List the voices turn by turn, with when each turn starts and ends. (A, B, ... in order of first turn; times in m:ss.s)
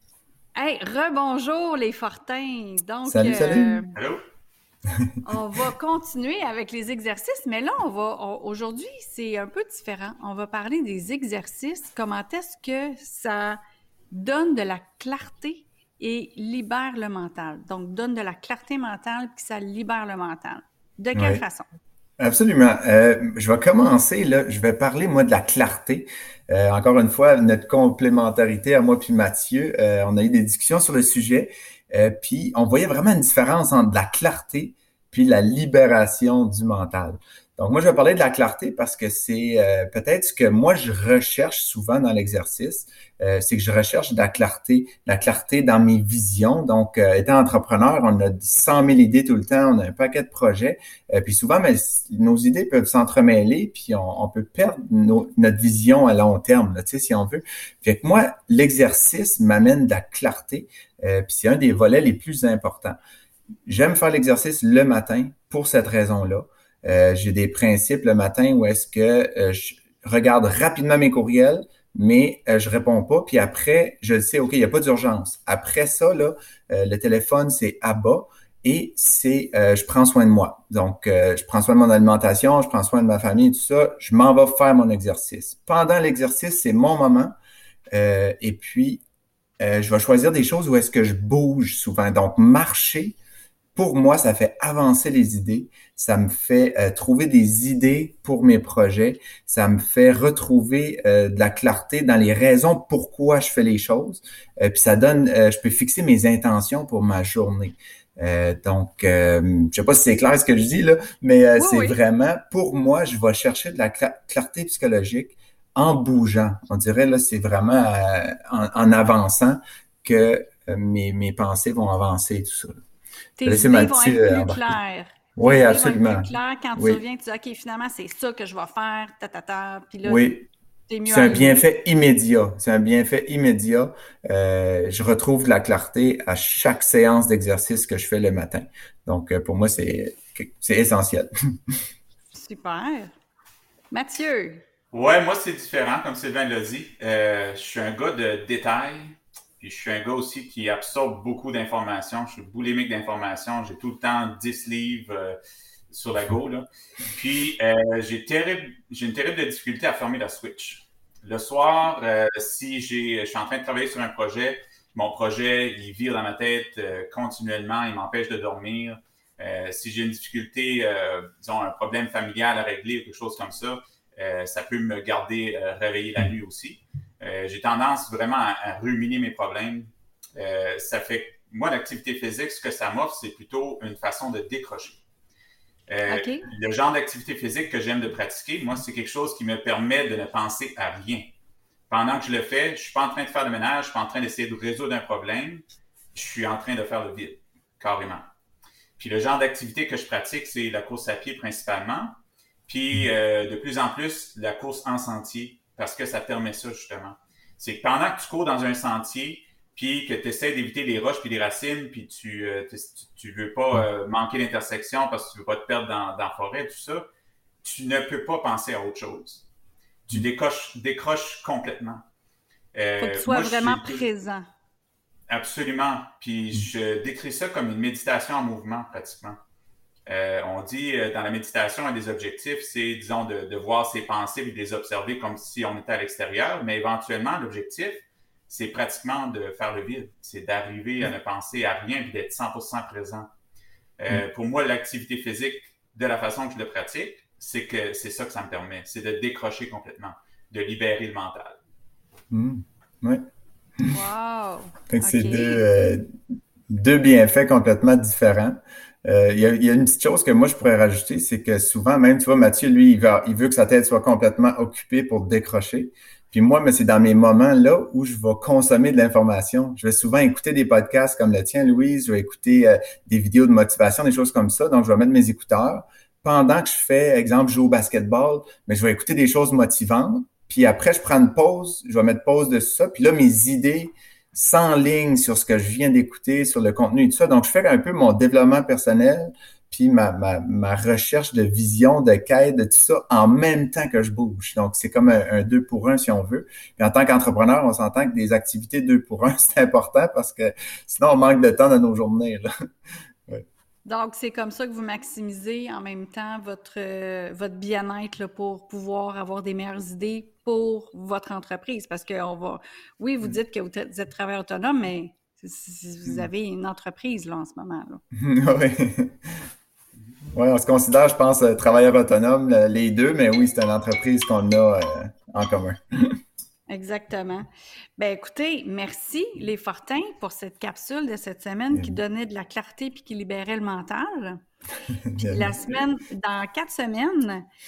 0:00.6-0:03.9 A
0:03.0-0:03.8 B
0:03.9-0:04.2 C
0:05.2-0:13.6 A
0:14.1-0:21.7 A
0:21.1-0:21.4 B
0:22.2-1:03.0 B
1:03.6-1:27.3 B
1:27.9-1:29.0 B
1:29.6-1:33.2 B
1:33.7-2:02.8 B
1:51.6-1:52.0 A
2:03.4-2:10.4 A
2:03.4-2:04.8 B
2:05.4-2:07.0 B
2:10.0-2:10.4 B
2:10.9-2:11.6 A
2:11.0-2:21.3 B
2:22.3-2:23.1 A
2:23.9-2:24.6 A
2:24.9-2:35.4 C
2:35.9-3:05.0 C
3:05.9-3:11.3 C
3:06.1-3:06.5 A
3:11.9-3:15.6 C
3:16.1-3:18.3 C
3:19.0-3:37.0 C
3:37.6-3:39.4 C
3:40.1-3:42.0 C
3:42.7-3:44.0 C
3:43.0-3:44.4 A
3:45.3-3:49.4 C
3:50.1-4:03.3 C
4:04.0-4:11.6 C
4:12.3-4:13.2 B
4:13.9-4:15.6 A
4:14.9-4:16.0 B
4:16.7-5:02.5 B
5:03.8-5:18.0 A
5:18.2-5:19.4 B
5:20.3-5:25.8 B
5:26.7-5:34.4 A
5:31.7-5:32.0 B
5:34.9-5:35.8 B
5:35.2-5:37.4 A